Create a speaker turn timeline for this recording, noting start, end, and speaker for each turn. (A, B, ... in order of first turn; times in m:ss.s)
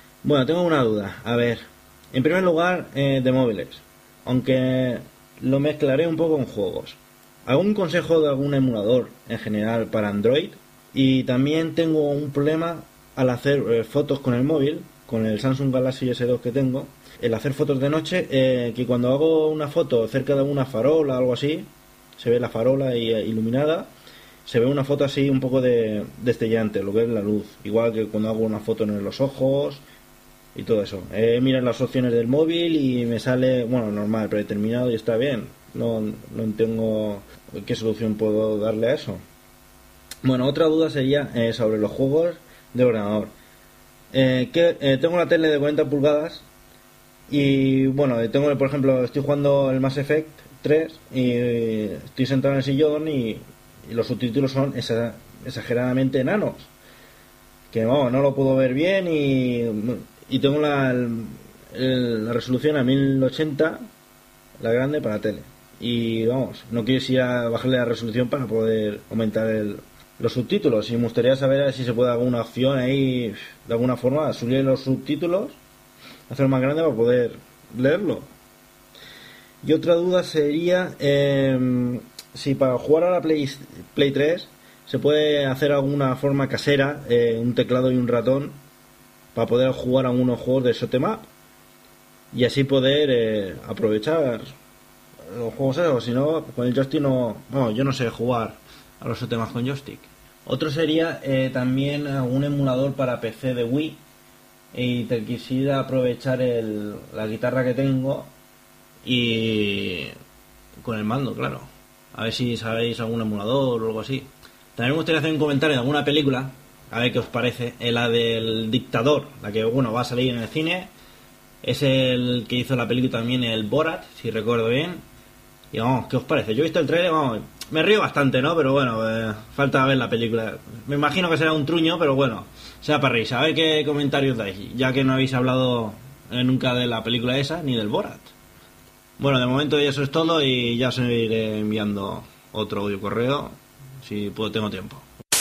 0:00.2-0:23.9 A
0:24.4-0:29.8 A
0:30.5-0:39.2 A
0:40.2-0:43.3 A
0:44.1-0:46.4 A
0:47.3-0:56.7 A
0:57.7-1:03.9 A
1:04.6-1:15.6 A
1:16.3-1:18.3 A
1:19.6-1:28.6 A
1:29.3-1:31.3 A
1:32.3-1:34.5 A
1:35.3-1:44.0 A
1:44.7-1:48.3 A
1:49.0-1:50.1 A
1:50.8-2:00.9 A
2:01.6-2:05.0 A
2:05.7-2:18.3 A
2:19.2-2:25.0 A